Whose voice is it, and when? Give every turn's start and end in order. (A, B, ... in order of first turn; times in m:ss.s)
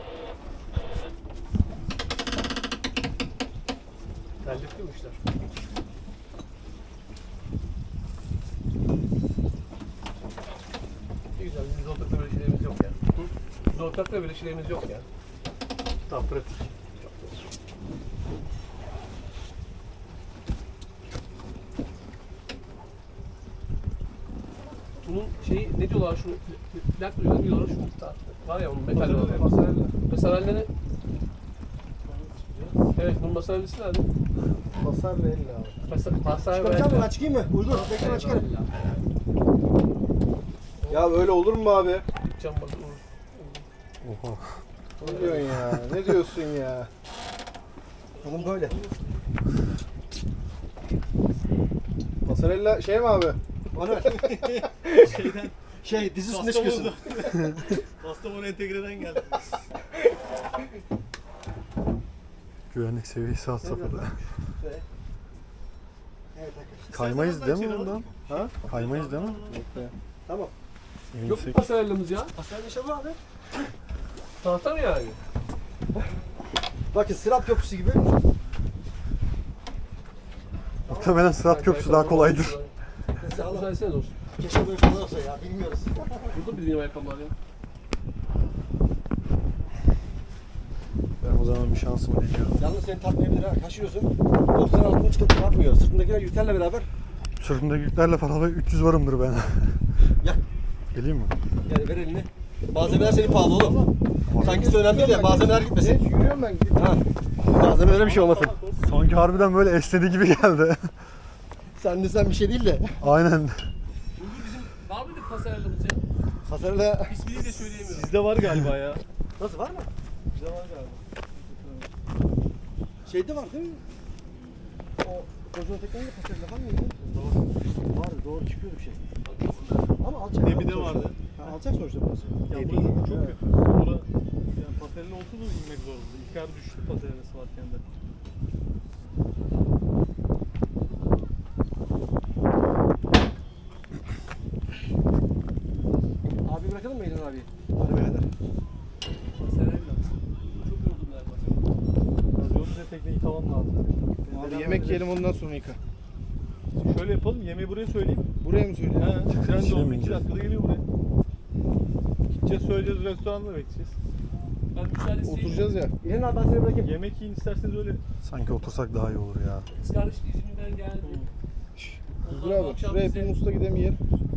0:04.4-0:05.2 A
0:11.4-0:13.0 A
0:13.7-0:15.0 A
0:16.1-0:16.7 B
0:25.0-0:30.7 A
0:28.9-0:29.5 B
0:29.2-0:29.9 C
0:32.0-0:32.9 B
0:32.9-0:34.1 A
0:34.8-0:35.8 C
0:35.9-0:38.7 A
0:36.3-0:38.5 D
0:40.8-0:41.2 A
0:40.9-0:42.0 C
0:42.2-0:43.6 A
0:44.0-0:44.5 E
0:45.0-0:46.9 C
0:45.0-0:45.4 A
0:48.2-0:49.2 B
0:48.2-0:48.7 D
0:52.2-0:53.4 C
0:53.7-0:54.3 D
0:54.2-0:59.6 B
0:55.8-0:57.0 D
1:02.7-1:04.1 E
1:03.6-1:04.8 D
1:06.3-1:07.1 D
1:06.9-1:08.0 E
1:06.9-1:09.8 B
1:08.2-1:08.5 D
1:08.7-1:09.4 E
1:09.5-1:09.9 C
1:10.2-1:10.5 D
1:11.1-1:11.7 E
1:11.2-1:12.3 A
1:12.3-1:13.2 D
1:14.4-1:15.2 A
1:16.9-1:18.1 D
1:20.8-1:22.7 A
1:20.9-1:22.6 E
1:23.2-1:23.7 D
1:23.2-1:24.2 A
1:24.3-1:26.2 D
1:26.2-1:27.3 A
1:31.2-1:32.6 E
1:32.6-1:36.9 D
1:37.4-1:39.8 E
1:40.9-1:41.3 E
1:41.6-1:43.8 D
1:42.8-1:43.9 B
1:44.3-1:44.7 E
1:44.3-1:46.9 C
1:44.4-1:46.0 D
1:46.7-1:48.6 D
1:47.8-1:49.3 B
1:48.8-1:50.9 E
1:51.7-1:52.9 D
1:53.0-1:53.7 E
1:54.2-1:56.0 A
1:56.4-1:57.2 D
1:57.0-1:58.2 A
1:57.9-1:59.0 B
1:59.4-1:59.9 D
2:00.3-2:01.0 B
2:03.0-2:03.8 D
2:05.0-2:07.0 D
2:07.0-2:07.6 B
2:07.8-2:09.0 D
2:09.2-2:09.9 A
2:10.0-2:13.4 D
2:10.4-2:11.2 B
2:12.5-2:17.8 B
2:26.4-2:28.2 D
2:29.3-2:31.6 A
2:32.3-2:34.0 B
2:34.2-2:35.1 D
2:34.3-2:35.8 C
2:36.8-2:38.2 B
2:38.4-2:39.2 C
2:39.0-2:40.8 B
2:39.3-2:40.2 E
2:42.4-2:43.9 B
2:44.7-2:45.8 A
2:45.2-2:45.9 C
2:46.0-2:46.9 D
2:46.8-2:48.0 B
2:48.2-2:49.7 E
2:49.7-2:51.3 A
2:51.0-2:51.3 B
2:52.2-2:53.4 A
2:52.2-2:54.0 C